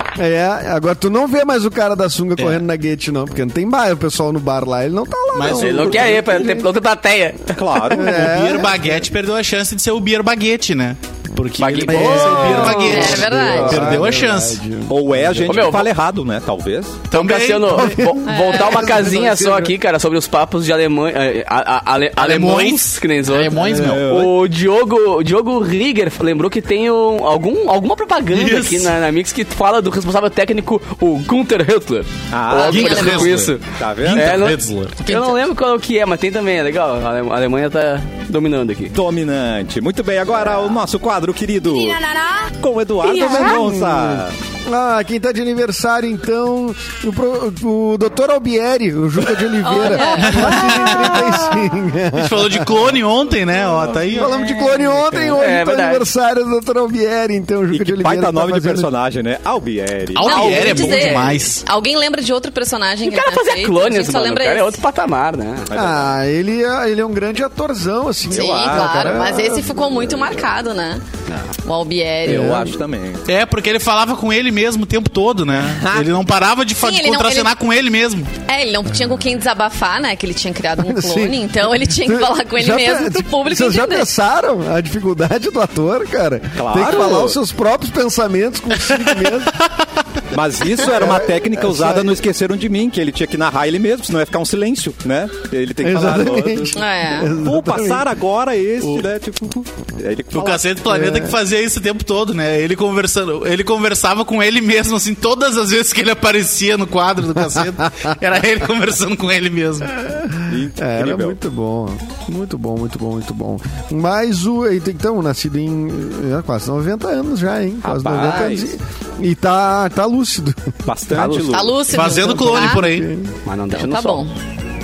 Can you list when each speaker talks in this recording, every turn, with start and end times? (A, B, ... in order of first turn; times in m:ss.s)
0:00.2-0:06.3 A
0:05.3-0:06.1 B
0:05.4-0:07.6 C
0:05.9-0:06.6 D
0:07.5-0:08.2 D
0:07.9-0:09.0 A
0:08.0-0:14.6 B
0:11.6-0:13.9 C
0:11.8-0:15.7 A
0:12.7-0:13.9 E
0:14.9-0:17.0 D
0:15.4-0:15.9 C
0:17.1-0:18.0 B
0:17.1-0:39.0 C
0:17.7-0:19.7 A
0:18.3-0:19.0 E
0:22.2-0:24.1 B
0:23.6-0:24.4 D
0:28.3-0:28.9 B
0:32.3-0:34.4 D
0:32.6-0:35.0 B
0:32.7-0:33.3 E
0:35.0-0:35.4 E
0:38.9-0:44.4 D
0:43.1-0:52.9 A
0:49.6-0:50.9 E
0:50.2-0:54.4 B
0:54.0-0:58.9 A
0:55.2-0:56.1 C
0:57.7-1:01.3 D
1:00.1-1:01.6 B
1:00.2-1:04.8 E
1:03.0-1:05.7 C
1:05.7-1:06.0 D
1:05.7-1:09.8 A
1:08.3-1:10.5 D
1:08.4-1:11.0 E
1:11.6-1:12.6 E
1:12.2-1:12.7 A
1:12.2-1:13.2 D
1:13.2-1:18.3 B
1:15.6-1:16.2 D
1:16.8-1:17.5 E
1:18.5-1:24.1 E
1:20.8-1:29.5 A
1:26.6-1:27.4 D
1:30.3-1:36.7 D
1:30.8-1:32.2 A
1:35.8-1:38.0 A
1:36.7-1:37.4 E
1:37.4-1:40.6 D
1:40.3-1:49.9 B
1:40.8-1:41.4 A
1:47.4-1:48.1 A
1:49.9-2:00.7 A
1:50.5-1:51.4 D
1:57.8-1:58.7 D
2:00.8-2:01.9 D
2:01.1-2:01.5 C
2:01.4-2:02.8 E
2:01.9-2:03.1 B
2:01.9-2:03.3 A
2:03.4-2:04.2 C
2:03.7-2:04.3 E